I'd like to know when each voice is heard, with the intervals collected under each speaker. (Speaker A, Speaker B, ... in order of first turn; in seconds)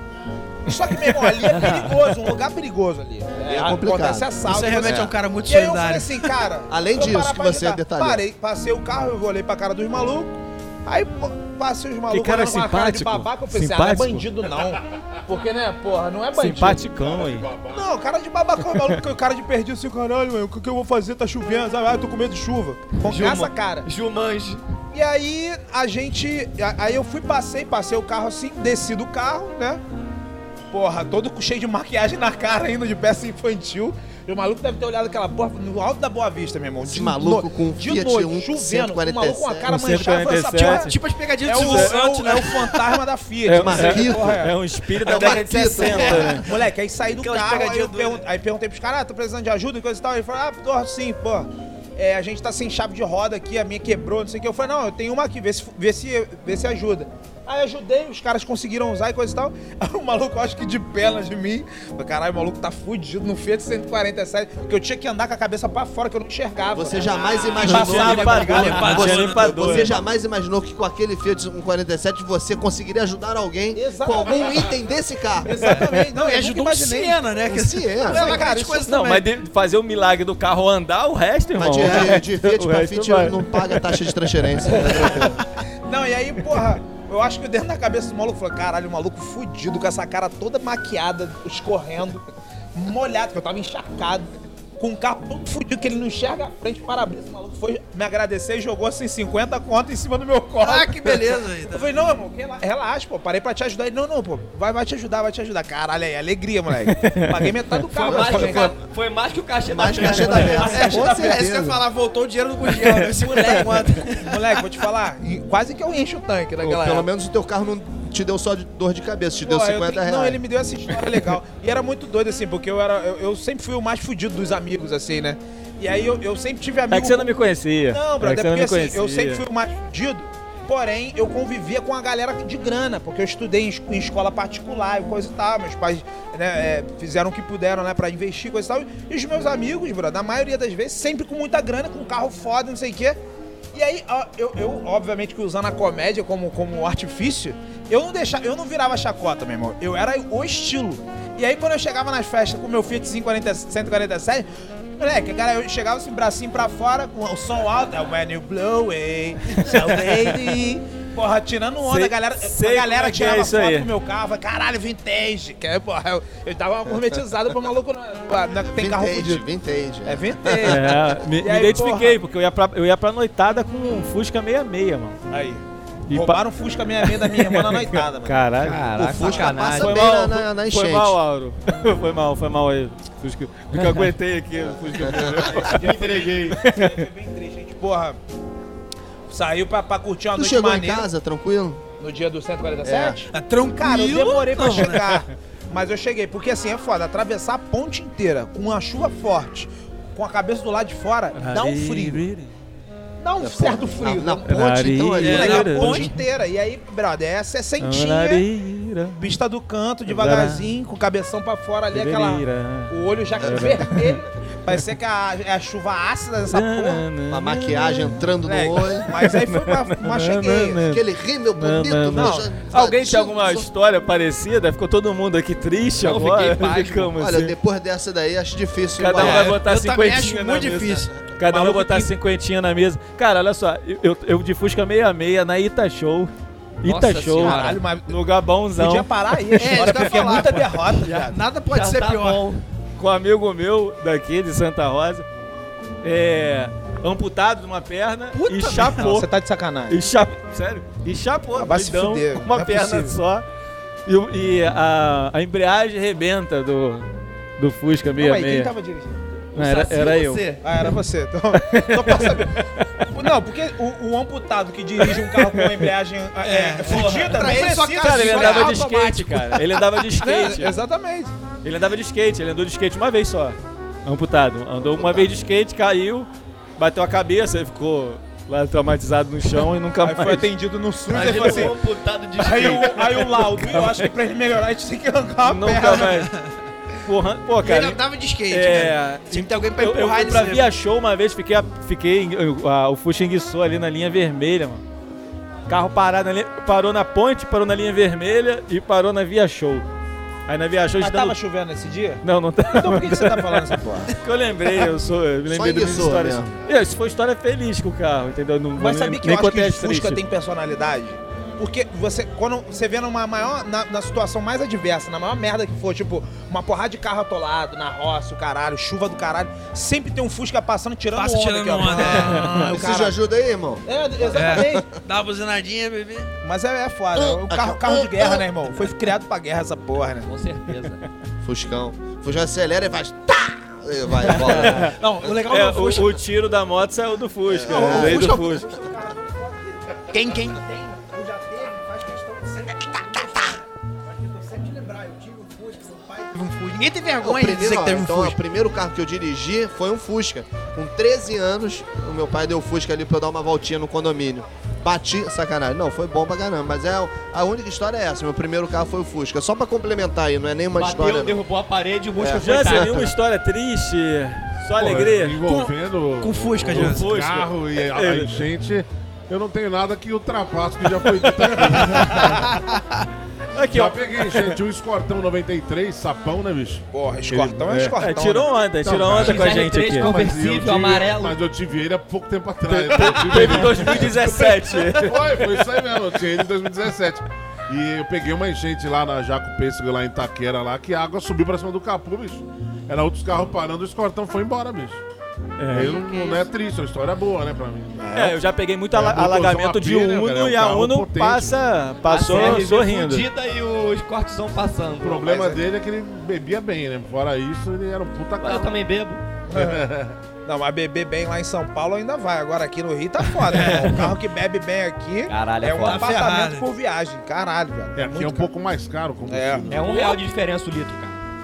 Speaker A: 0.7-16.9, 17.7-23.9, 24.9-29.8, 30.7-40.9, 41.4-44.5, 45.1-69.3, 73.7-74.7, 75.5-77.3, 78.0-78.9, 84.8-85.3, 85.9-92.2, 92.8-108.8, 110.4-111.6, 113.2-113.6, 114.2-117.1, 119.4-127.3, 127.9-143.2, 143.7-169.4, 170.1-172.2, 175.3-178.5, 179.2-179.5, 185.3-188.2, 189.3-191.1, 192.0-202.2, 203.2-204.5, 205.2-208.4, 209.2-217.1, 218.4-220.8, 222.1-222.5, 231.5-231.9, 237.4-238.2, 238.8-241.4, 249.0-250.0, 251.6-253.2, 258.1-259.5, 260.6-268.8, 270.2-271.3, 280.0-281.8, 282.4-286.1, 301.0-304.1, 308.8-323.2, 323.9-324.9, 326.4-330.3, 337.7-346.3, 376.9-378.5, 398.0-398.3, 409.5-409.9, 410.4-418.5, 419.3-420.2
Speaker B: 3.5-4.3, 4.9-5.1, 6.7-8.2, 36.8-39.7, 43.6-44.5, 45.0-46.5, 66.7-75.5, 77.5-78.3, 81.6-85.4, 108.0-108.8, 109.7-111.8, 116.6-120.4, 168.7-170.8, 178.9-181.2, 184.9-185.6, 190.3-191.8, 192.8-193.2, 203.4-205.7, 217.3-219.1, 220.9-223.7, 227.2-229.6, 305.5-306.5, 322.6-324.9, 327.1-328.5, 331.4-335.0, 337.5-338.3, 347.2-361.4, 362.2-363.1
Speaker C: 4.4-6.4, 40.6-43.0, 45.8-46.4, 47.1-48.2, 67.6-69.9, 75.6-79.3, 100.6-101.9, 110.2-114.6, 193.3-195.2, 205.2-206.2, 229.2-232.0, 239.6-242.4, 248.3-249.1, 260.0-260.5, 266.4-270.6, 285.8-286.5, 287.6-290.7, 321.1-322.9, 324.3-326.3, 334.9-336.1, 337.7-338.6, 340.2-340.5, 346.3-348.4, 365.4-367.1, 371.9-372.8, 413.5-413.9, 415.8-416.7
Speaker D: 12.1-14.2, 16.4-17.5, 39.7-40.9, 41.5-42.0, 43.5-46.5, 67.6-70.0, 78.8-85.2, 106.9-107.5, 126.9-129.4, 161.8-163.9, 170.7-175.2, 176.1-176.4, 177.0-178.8, 179.5-185.9, 186.5-187.1, 201.4-202.5, 204.5-206.1, 207.8-209.4, 210.1-210.7, 211.9-214.2, 216.5-218.3, 219.1-221.0, 221.5-227.6, 229.0-236.3, 236.8-240.2, 243.0-245.3, 246.0-249.3, 249.9-253.4, 254.1-257.1, 257.6-258.7, 259.6-260.6, 261.5-262.9, 265.0-265.9, 268.0-270.8, 271.6-280.5, 281.2-281.6, 283.0-284.1, 285.4-286.3, 287.1-294.8, 295.7-299.9, 300.5-301.4, 302.2-310.2, 322.1-322.5, 334.2-338.7, 362.4-365.4, 366.7-368.4, 371.1-372.4, 373.6-374.6, 377.7-380.2, 382.7-385.4, 395.6-396.0, 398.1-403.3
Speaker E: 17.0-17.9, 185.8-186.6, 364.8-372.2, 373.7-377.9, 378.9-395.0, 395.7-398.2, 398.9-401.6, 402.4-402.6, 405.0-408.7, 409.5-410.2, 417.9-420.0
Speaker F: 23.0-24.6, 107.9-110.9, 178.6-180.1, 183.7-184.1, 226.0-227.1, 236.8-237.8, 241.1-242.6, 259.6-260.6, 281.1-283.2, 330.2-331.0, 360.7-363.1, 379.0-381.4, 402.0-405.5, 408.4-409.2, 415.3-416.2, 419.7-421.2